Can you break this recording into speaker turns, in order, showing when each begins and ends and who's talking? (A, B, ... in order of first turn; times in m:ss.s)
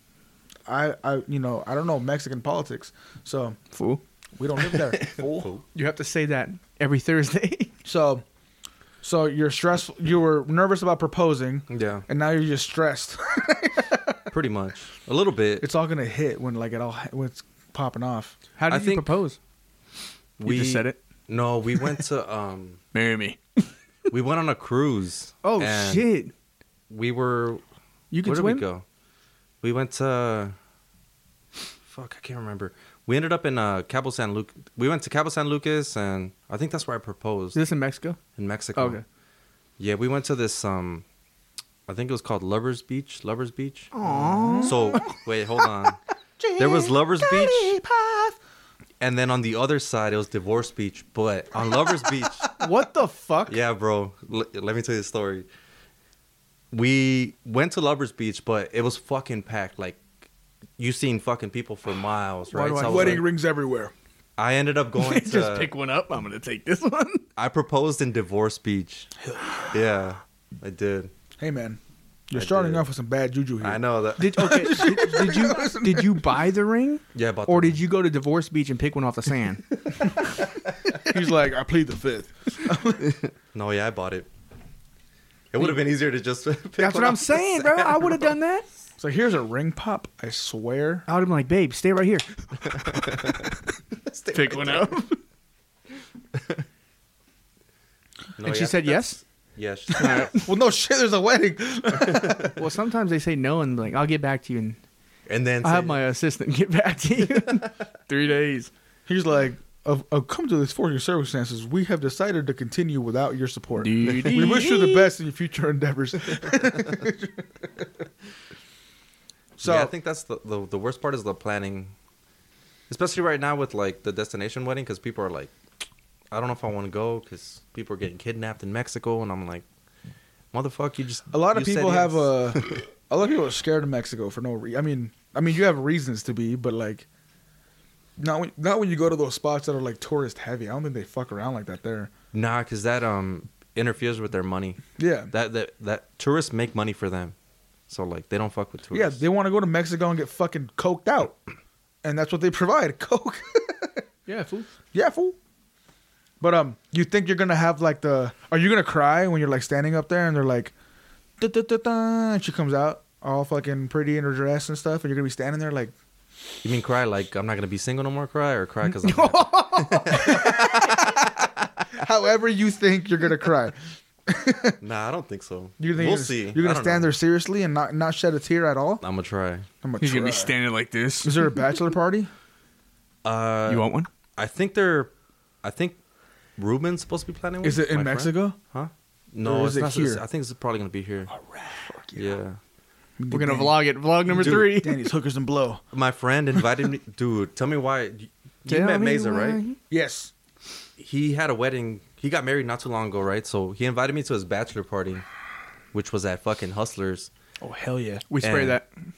0:00.7-0:03.6 A
0:03.7-0:04.0 B
0:04.4-0:05.5 A
0:04.7-0:05.6 C
0:05.7-0:07.7 B
0:07.8-0:08.2 A
0:09.0-0:14.2 A
0:11.7-0:12.0 C
0:14.3-0:15.6 C
0:15.6-0:18.4 A
0:18.6-0:19.4 B
0:18.7-0:19.1 C
0:20.4-0:22.8 C
0:20.4-0:21.0 B
0:21.8-0:22.0 B
0:22.9-0:23.7 B
0:24.1-0:26.0 C
0:25.4-0:26.3 B
0:26.9-0:27.6 C
0:28.1-0:28.6 B
0:28.2-0:28.8 C
0:29.6-0:30.5 C
0:31.9-0:37.6 C
0:37.5-0:38.2 B
0:38.4-0:39.0 C
0:38.7-0:39.0 B
0:39.8-0:41.0 C
0:41.9-0:43.9 C
0:43.9-0:45.2 B
0:44.0-0:45.2 A
0:44.6-0:46.0 C
0:46.4-0:48.4 A
0:46.6-0:47.8 C
0:49.0-0:52.5 C
0:52.5-0:53.6 B
0:53.5-0:55.5 C
0:56.7-1:00.0 C
1:00.8-1:03.2 C
1:02.5-1:03.2 B
1:02.8-1:03.9 A
1:04.4-1:05.7 C
1:05.0-1:07.2 B
1:07.4-1:09.1 C
1:09.2-1:09.7 A
1:09.6-1:11.1 C
1:11.4-1:16.3 A
1:12.3-1:12.8 C
1:13.6-1:14.6 C
1:14.2-1:19.7 B
1:17.1-1:17.8 C
1:20.0-1:20.9 C
1:21.0-1:23.1 A
1:23.1-1:24.3 C
1:25.5-1:28.3 C
1:26.8-1:28.6 B
1:29.0-1:31.0 A
1:31.1-1:33.5 B
1:32.7-1:33.4 C
1:34.0-1:35.0 C
1:34.3-1:35.2 B
1:36.3-1:36.6 C
1:38.4-1:40.3 C
1:38.4-1:39.2 B
1:39.9-1:40.5 B
1:40.0-1:42.6 A
1:41.9-1:42.5 C
1:42.5-1:44.8 B
1:45.3-1:46.0 C
1:45.6-1:48.7 B
1:49.1-1:57.8 A
1:53.8-1:55.1 B
1:54.0-1:54.5 C
1:59.6-1:59.9 A
1:59.6-2:01.9 C
2:02.9-2:05.5 C
2:06.3-2:09.6 C
2:10.5-2:12.8 C
2:11.3-2:17.0 A
2:18.2-2:22.1 A
2:22.3-2:27.3 C
2:25.0-2:25.3 A
2:27.9-2:29.2 C
2:28.9-2:31.4 A
2:32.0-2:34.0 A
2:34.3-2:34.7 B
2:34.9-2:35.4 A
2:36.4-2:40.7 A
2:41.4-2:45.9 A
2:46.6-2:51.1 C
2:48.8-2:50.5 B
2:50.1-2:51.2 A
2:51.9-2:53.8 A
2:54.3-2:54.8 A
2:54.8-2:57.1 C
2:55.8-2:59.0 A
2:59.0-2:59.7 C
2:59.8-3:00.5 A
3:00.0-3:01.7 B
3:01.2-3:02.3 A
3:03.2-3:05.1 C
3:03.7-3:04.1 B
3:05.6-3:06.0 C
3:06.6-3:11.3 C
3:07.6-3:08.6 A
3:09.4-3:10.2 A
3:11.3-3:12.4 A
3:12.1-3:12.6 C
3:13.2-3:15.8 A
3:13.3-3:15.1 B
3:14.3-3:14.8 C
3:15.9-3:19.6 C
3:18.7-3:19.8 B
3:19.9-3:20.3 A
3:21.0-3:25.2 C
3:25.9-3:27.3 C
3:27.6-3:28.2 A
3:28.3-3:28.9 B
3:28.4-3:28.8 C